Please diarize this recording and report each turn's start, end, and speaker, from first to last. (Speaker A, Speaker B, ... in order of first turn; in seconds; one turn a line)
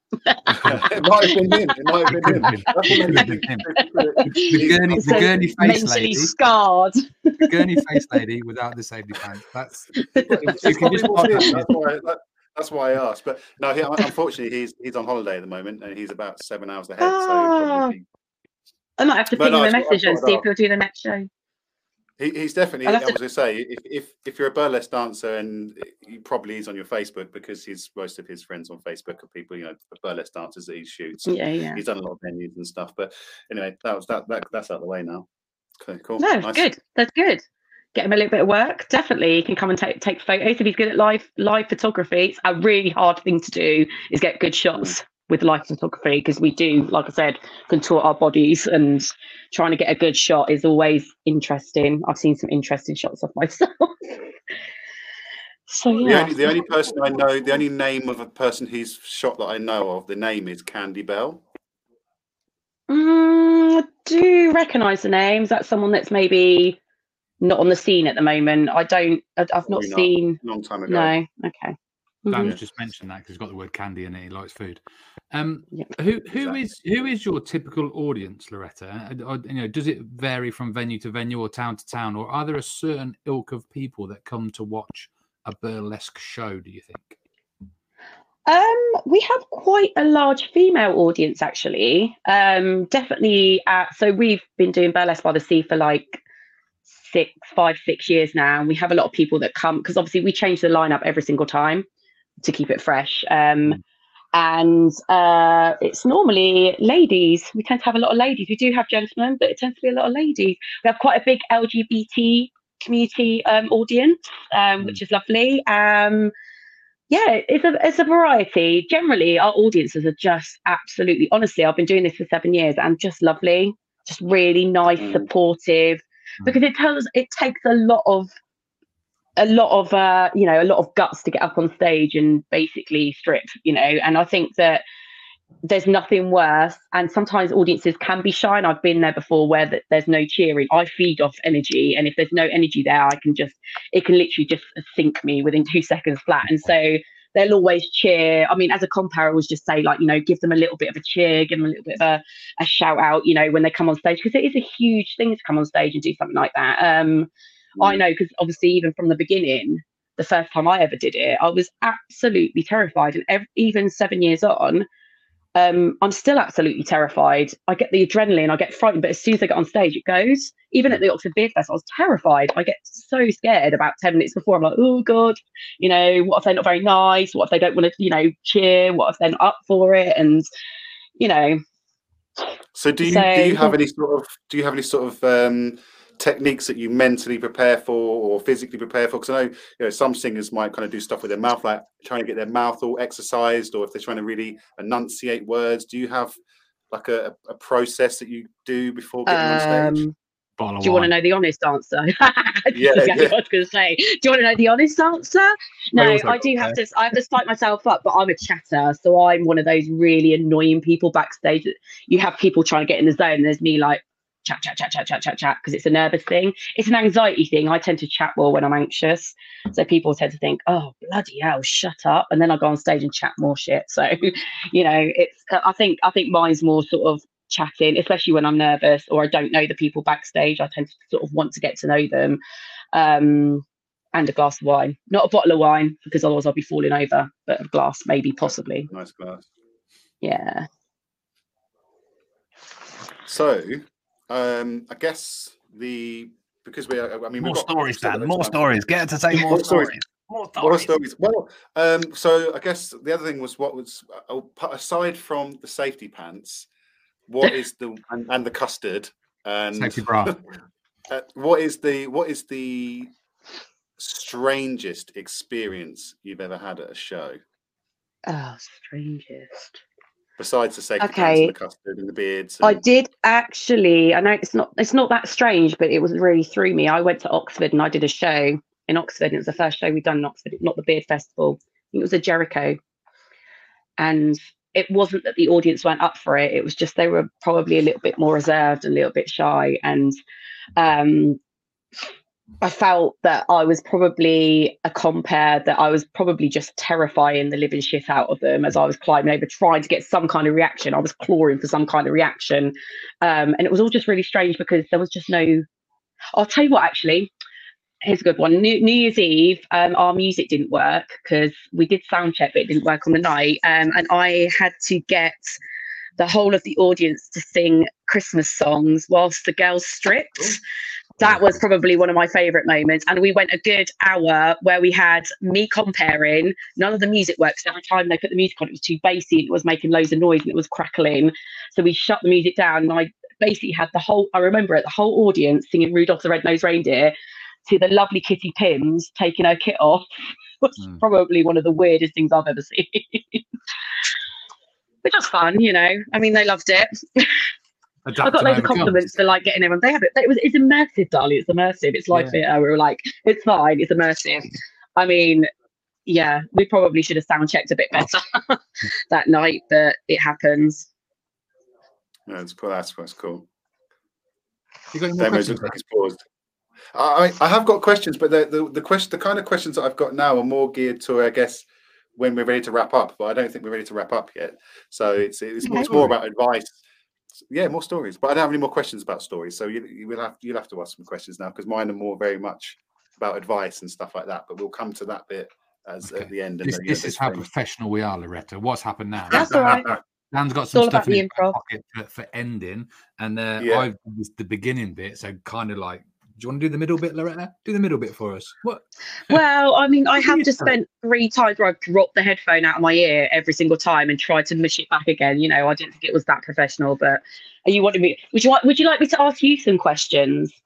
Speaker A: 0.2-0.6
Speaker B: 0.5-5.5
Speaker A: 1.2-2.2
Speaker C: 2.2-3.7
Speaker A: 3.8-8.0
Speaker C: 4.3-6.3
Speaker C: 7.5-11.7
Speaker A: 10.0-11.5
Speaker B: 10.1-18.1
Speaker A: 17.0-17.9
Speaker A: 19.0-21.3
Speaker B: 19.4-20.4
Speaker B: 22.2-35.3
Speaker A: 22.9-23.2
Speaker A: 31.2-31.8
Speaker B: 35.8-36.6
Speaker A: 36.2-37.4
Speaker A: 37.9-54.1
Speaker A: 55.7-56.7
Speaker B: 56.0-61.4
Speaker A: 62.9-66.8
Speaker A: 67.4-72.5
Speaker B: 69.7-71.1
Speaker C: 72.3-74.8
Speaker C: 75.3-87.2
Speaker A: 88.5-96.2
Speaker A: 97.0-101.8
Speaker A: 102.4-103.8
Speaker A: 104.3-116.3
Speaker A: 117.1-128.3
Speaker B: 125.0-125.3
Speaker A: 129.4-134.8
Speaker A: 135.6-164.8
Speaker A: 165.6-180.5
Speaker A: 181.2-181.6
Speaker B: 182.7-196.3
Speaker A: 183.0-183.7
Speaker B: 196.9-200.0
Speaker A: 199.3-200.1
Speaker C: 200.6-201.1
Speaker A: 200.8-232.4
Speaker B: 202.7-203.4
Speaker C: 205.9-206.8
Speaker A: 232.9-238.9
Speaker B: 238.5-239.4
Speaker A: 240.2-240.7
Speaker B: 243.2-249.9
Speaker C: 247.4-250.9
Speaker B: 250.6-256.7
Speaker B: 257.3-260.4
Speaker C: 259.7-260.4
Speaker B: 261.1-263.1
Speaker B: 264.0-267.4
Speaker A: 268.3-269.8
Speaker B: 270.4-272.8
Speaker A: 271.0-271.5
Speaker A: 272.6-282.8
Speaker A: 284.0-290.1
Speaker A: 290.8-291.4
Speaker A: 292.6-305.6
Speaker A: 306.4-307.3
Speaker A: 308.0-315.6
Speaker A: 316.2-320.6
Speaker A: 321.2-337.1
Speaker A: 337.6-340.1
Speaker A: 340.6-343.4
Speaker A: 345.0-347.4
Speaker C: 348.0-349.0
Speaker A: 348.2-355.5
Speaker C: 352.1-352.4
Speaker A: 356.1-360.9
Speaker B: 362.3-363.4
Speaker C: 364.9-365.8
Speaker B: 365.2-366.2
Speaker B: 366.9-376.8
Speaker A: 375.6-375.9
Speaker C: 375.8-376.1
Speaker B: 377.5-387.4
Speaker C: 386.1-389.8
Speaker A: 389.3-389.9
Speaker B: 389.3-390.0
Speaker C: 390.3-399.4
Speaker A: 390.7-391.6
Speaker B: 393.6-393.9
Speaker A: 399.3-410.5
Speaker C: 400.2-400.7